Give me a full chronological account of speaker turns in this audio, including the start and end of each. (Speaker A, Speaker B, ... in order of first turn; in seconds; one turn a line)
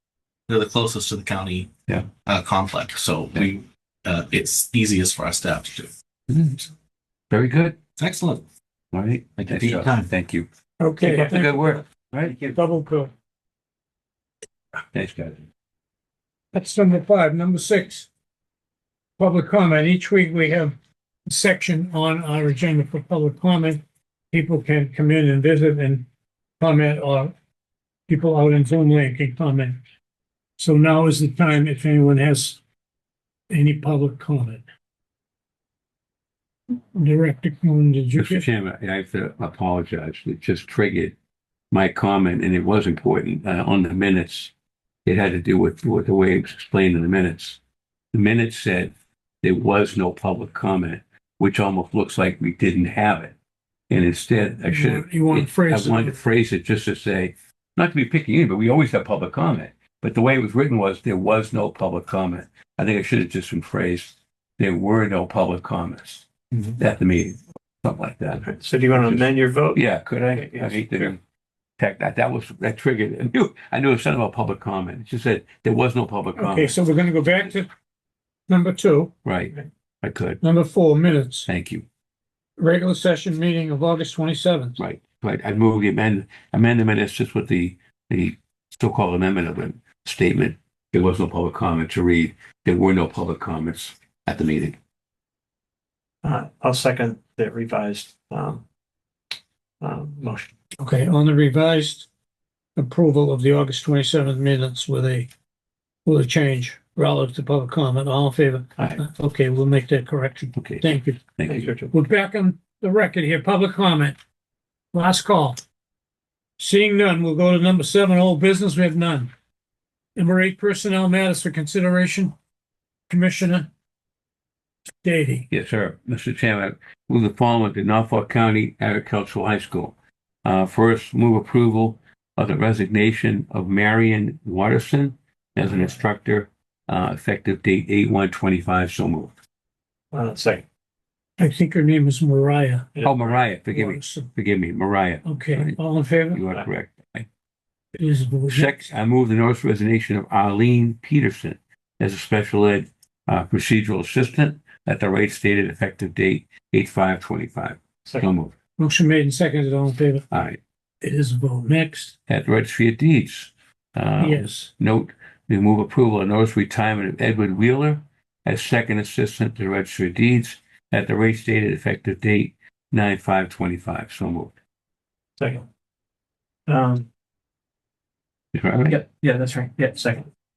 Speaker A: 0.5-5.9
Speaker B: 6.3-6.7
Speaker B: 7.3-7.8
Speaker A: 8.0-8.4
Speaker B: 8.9-10.5
Speaker A: 9.4-10.1
Speaker C: 10.8-11.8
Speaker B: 11.0-12.5
Speaker C: 12.5-13.1
Speaker B: 14.9-15.4
Speaker C: 16.5-18.1
Speaker C: 19.2-26.1
Speaker C: 26.6-27.3
Speaker C: 28.1-29.8
Speaker C: 30.6-32.6
Speaker C: 33.5-34.6
Speaker C: 36.7-38.4
Speaker B: 38.2-41.1
Speaker B: 41.7-44.5
Speaker B: 45.0-47.6
Speaker B: 48.1-53.3
Speaker B: 53.9-71.2
Speaker C: 54.6-56.2
Speaker D: 68.4-71.1
Speaker B: 71.8-76.8
Speaker C: 76.4-77.7
Speaker C: 78.5-79.2
Speaker B: 79.2-80.4
Speaker C: 80.4-81.5
Speaker B: 81.5-81.8
Speaker C: 82.6-84.8
Speaker B: 84.8-94.8
Speaker D: 96.2-98.6
Speaker D: 99.8-100.5
Speaker C: 100.8-102.1
Speaker C: 102.8-105.3
Speaker C: 106.0-111.4
Speaker B: 110.5-110.8
Speaker B: 111.4-111.7
Speaker D: 111.4-111.9
Speaker C: 111.9-114.2
Speaker C: 114.9-115.6
Speaker C: 116.6-119.3
Speaker C: 120.2-122.3
Speaker C: 123.1-123.7
Speaker C: 125.0-125.5
Speaker B: 125.5-139.3
Speaker D: 140.1-140.6
Speaker C: 141.4-143.0
Speaker D: 142.9-143.4
Speaker B: 143.0-145.8
Speaker C: 143.7-144.3
Speaker C: 145.2-146.4
Speaker B: 146.3-147.3
Speaker C: 148.0-148.9
Speaker B: 148.5-158.5
Speaker C: 158.8-160.3
Speaker B: 160.3-160.6
Speaker C: 161.0-162.2
Speaker B: 162.3-174.5
Speaker C: 164.2-164.7
Speaker D: 175.4-175.6
Speaker D: 176.7-177.1
Speaker B: 178.5-179.0
Speaker D: 178.9-180.3